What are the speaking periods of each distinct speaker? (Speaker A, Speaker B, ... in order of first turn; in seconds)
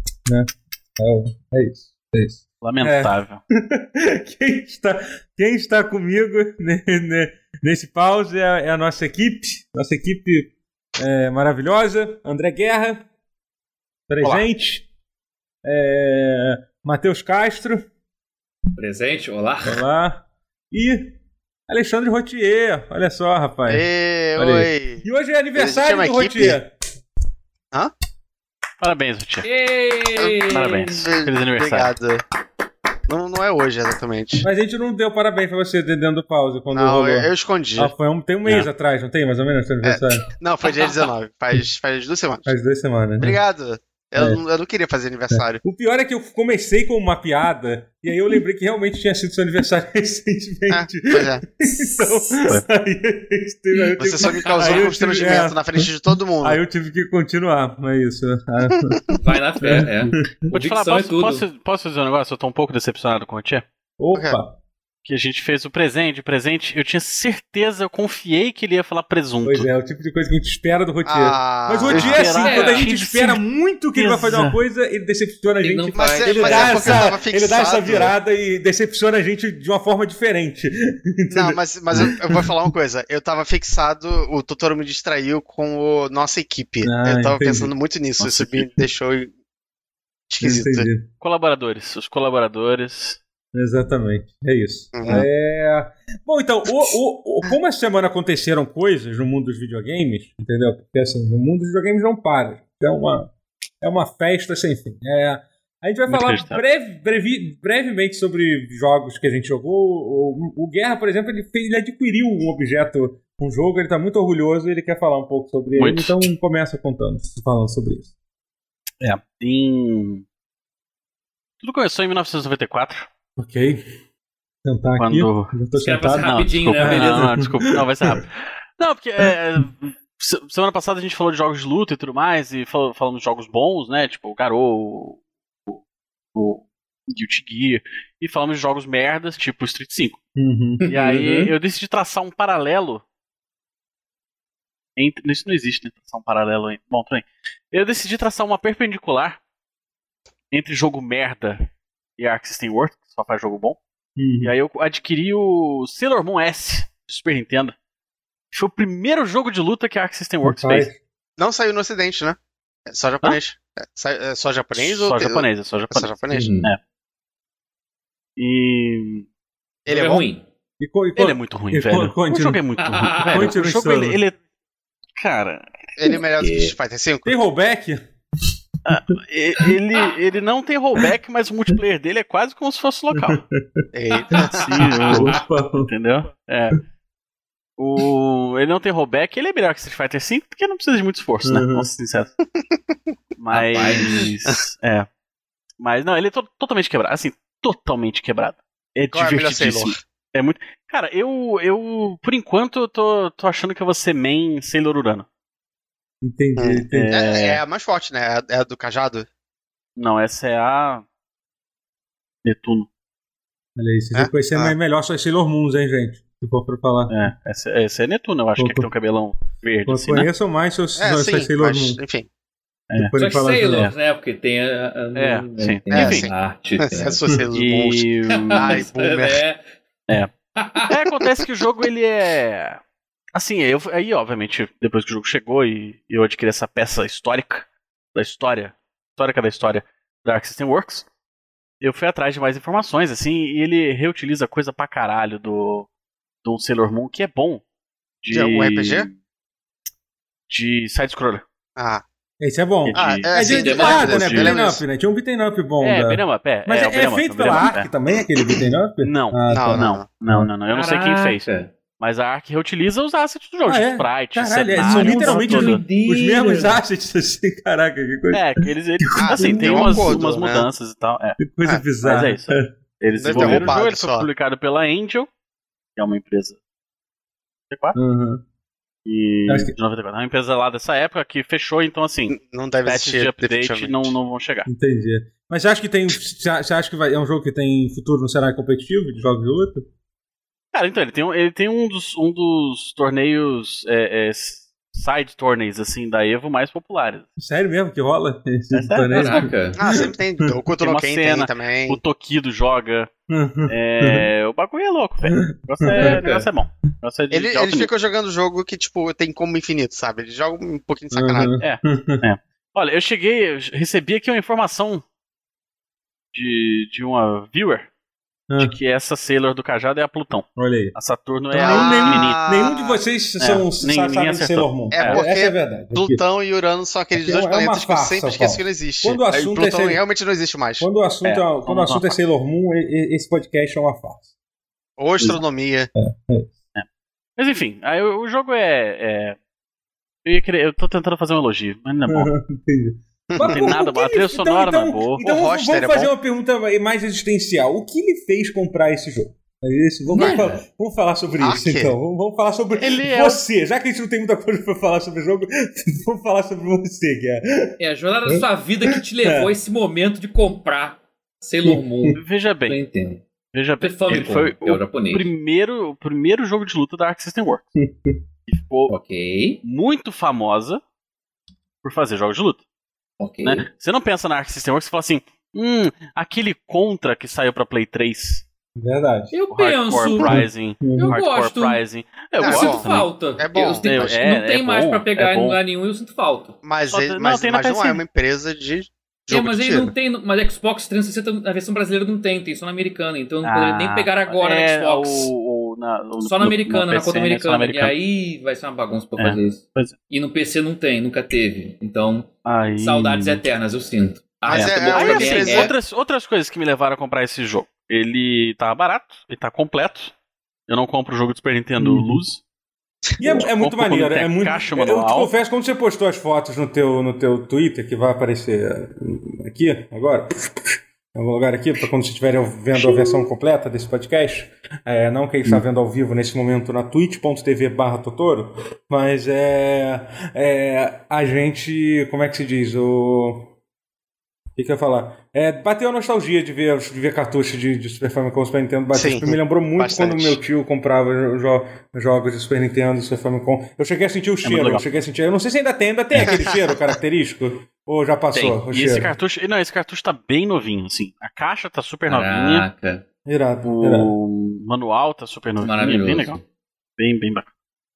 Speaker A: 0.3-13.1, 14.1-14.9, 15.6-17.9, 19.6-21.2, 21.7-26.7, 34.4-40.3, 42.5-43.4, 45.3-55.9, 56.4-59.0, 59.6-60.5, 64.0-64.6, 69.4-82.5, 86.8-87.7, 90.4-91.1, 93.5-118.1, 123.4-123.8, 124.7-128.2, 140.4-141.5, 154.2-154.5, 160.4-161.0, 170.8-172.6, 173.3-174.2, 177.2-178.0, 183.1-183.9, 185.1-185.9, 191.4-191.9, 206.2-207.2, 213.8-217.1, 218.6-218.9, 219.9-222.0, 222.9-223.9, 252.4-260.5, 263.7-270.2, 271.4-272.7, 273.3-273.8, 277.9-278.4, 279.5-279.7, 284.7-289.9, 297.4-300.6, 303.3-304.3, 305.2-306.2, 311.1-312.2, 318.5-318.8, 320.6-320.9, 321.5-326.2, 327.1-330.0, 330.8-334.3, 336.0-336.6, 342.1-358.4, 359.2-359.5, 361.6-362.2, 367.8-368.2, 378.8-379.3, 380.2-381.2, 411.8-412.2, 413.2-433.5, 434.6-449.1, 453.3-454.1
Speaker B: 2.6-3.4, 14.2-14.5, 28.8-29.5, 30.5-31.9, 54.5-55.4, 60.5-63.6, 65.0-69.7, 71.9-73.4, 74.0-74.6, 88.2-88.8, 91.2-93.2, 106.1-106.6, 115.8-116.2, 119.0-120.2, 121.6-123.1, 125.0-125.5, 126.2-135.8, 136.3-140.2, 140.9-143.0, 145.0-149.4, 150.5-151.6, 152.2-153.8, 154.4-157.8, 158.5-160.9, 164.8-166.8, 168.4-169.3, 171.2-174.4, 175.2-176.1, 178.9-183.4, 184.6-186.8, 187.8-192.3, 193.4-195.1, 195.8-205.3, 206.9-207.6, 210.0-211.1, 212.4-212.9, 217.1-220.3, 222.9-223.2, 225.2-226.3, 227.5-228.8, 230.8-232.8, 233.3-241.1, 241.8-245.9, 246.4-247.6, 248.2-249.2, 250.5-251.4, 252.9-254.6, 255.8-257.9, 259.0-261.5, 262.0-265.8, 268.3-271.4, 272.0-275.3, 276.0-276.6, 277.7-278.0, 279.1-284.7, 290.7-297.3, 298.7-299.5, 300.8-303.1, 303.7-307.9, 311.6-315.0, 316.3-317.9, 318.6-322.4, 323.4-325.2, 331.2-332.1, 337.4-339.4, 340.2-342.3, 343.4-345.2, 352.8-353.4, 362.2-362.8, 363.5-367.8, 368.5-368.9, 369.6-370.8, 371.8-372.6, 373.4-378.5, 379.5-383.1, 383.8-385.6, 386.9-388.0, 393.4-398.0, 399.2-399.9, 402.4-403.4, 404.5-410.1, 410.7-412.4, 413.3-415.3, 444.4-444.9, 448.3-452.6, 453.6-456.4, 457.0-457.5
Speaker C: 18.8-19.8, 29.4-31.1, 59.2-61.4, 72.4-72.9, 75.6-77.1, 125.8-127.3, 140.8-141.2, 166.3-166.7, 169.9-170.4, 172.8-173.5, 176.4-176.7, 184.1-185.4, 193.5-194.3, 223.2-227.2, 228.3-229.6, 230.6-230.9, 253.4-254.2, 260.7-261.7, 264.8-266.8, 299.1-299.8, 305.9-306.5, 350.1-350.6, 357.8-363.2, 363.8-365.3, 368.9-369.6, 373.2-373.7, 379.3-380.4, 380.9-381.8, 382.4-386.6, 389.3-395.3, 396.2-405.7, 452.1-453.0, 455.6-456.4
Speaker D: 23.7-26.6, 31.0-32.2, 33.1-34.5, 36.7-37.9, 39.8-42.5, 43.2-45.6, 50.7-51.4, 54.0-56.6, 71.0-72.2, 76.0-78.1, 81.3-89.3, 90.3-90.9, 94.9-95.2, 161.4-166.5, 169.9-170.3, 176.0-177.4, 183.9-184.7, 199.1-200.0, 206.6-209.3, 214.1-214.7, 221.0-222.3, 225.9-229.4, 248.3-249.1, 251.8-252.0, 252.9-254.8, 259.5-260.1, 269.2-270.7, 273.2-274.3, 282.3-284.1, 299.8-302.0, 307.3-311.6, 321.6-323.0, 324.9-330.9, 335.0-335.9, 343.3-343.7, 345.2-346.1, 351.4-351.9, 382.4-382.9, 383.4-384.2, 386.6-389.9, 404.5-405.7, 422.8-423.3, 438.9-440.4, 446.2-446.6